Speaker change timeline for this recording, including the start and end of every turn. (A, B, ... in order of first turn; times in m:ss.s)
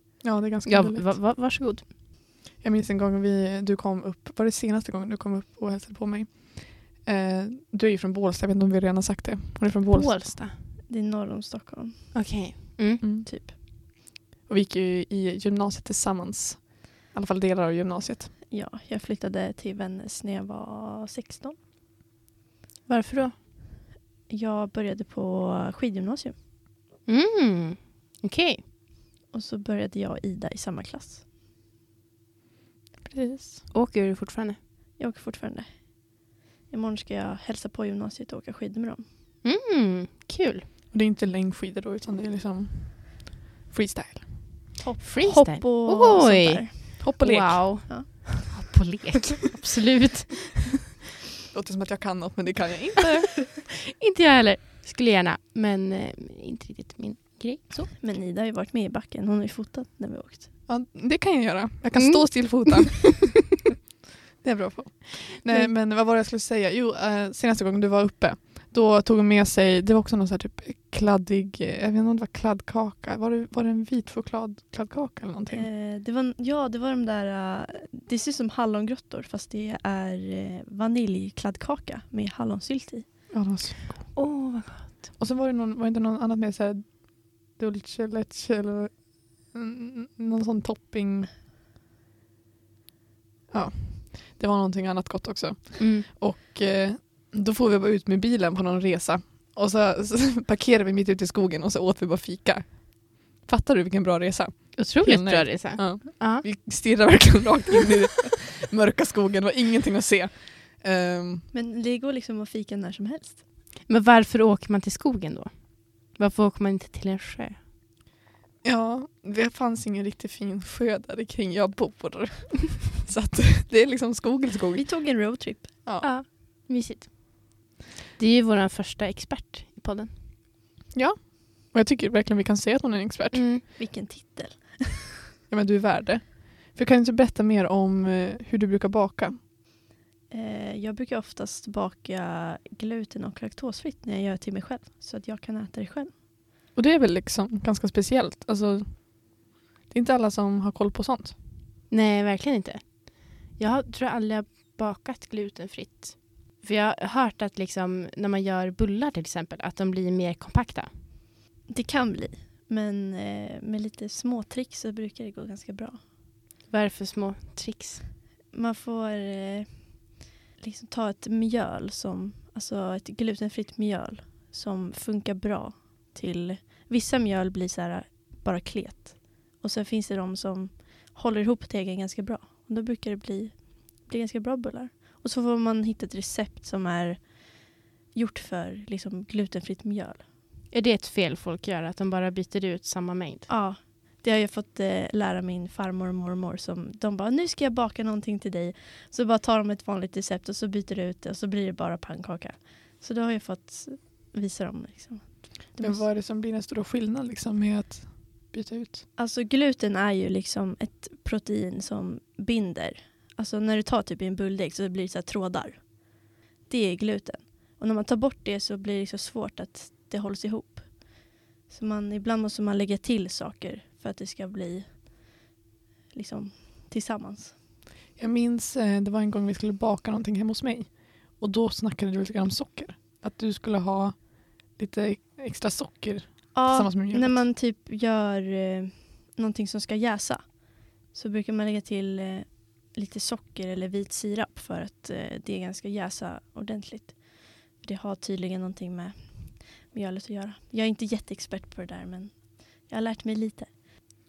0:00.2-0:01.2 A
0:00.6-0:01.9 B
0:02.6-0:10.4 A
0:09.9-0:10.6 B
0:10.9-0:12.6 C
0:12.1-0:13.0 B
0:13.0-0:13.3 A
0:13.2-0:13.5 C
0:14.5-0:18.3 A
0:18.5-0:21.6 C
0:22.9-0:23.4 B
0:24.3-0:26.4 C
0:27.0-0:28.6 B
0:29.3-0:31.2 C
0:33.0-0:33.6 A
0:33.7-0:34.6 B
0:35.0-0:39.0 C
0:39.4-0:40.6 B
0:40.9-0:44.5 A
0:44.8-0:47.0 C
0:45.0-0:50.7 B
0:47.0-0:47.9 A
0:47.9-0:48.4 C
0:51.5-0:53.5 A
0:54.0-0:57.9 B
0:57.8-1:00.5 C
1:00.7-1:03.6 A
1:02.0-1:02.9 B
1:04.4-1:15.7 A
1:15.5-1:23.3 C
1:23.3-1:24.2 A
1:24.1-1:25.1 B
1:25.2-1:31.3 A
1:33.5-1:51.5 A
1:35.8-1:36.1 B
1:44.8-1:46.4 B
1:51.5-1:53.4 C
1:53.9-1:57.6 B
1:58.6-2:04.9 A
2:04.8-2:05.7 C
2:05.8-2:06.1 A
2:06.0-2:07.5 B
2:08.2-2:10.1 B
2:10.9-2:13.5 A
2:13.3-2:13.6 B
2:13.7-2:15.2 C
2:15.5-2:19.4 A
2:20.3-2:26.1 C
2:26.8-2:31.4 A
2:31.9-2:40.9 B
2:41.7-2:46.0 C
2:46.7-2:48.0 B
2:48.5-3:10.2 C
3:10.7-3:13.5 B
3:13.5-3:26.0 C
3:25.8-3:29.0 A
3:29.2-3:45.0 C
3:46.1-3:47.6 C
3:48.2-3:57.5 A
3:56.5-4:13.7 C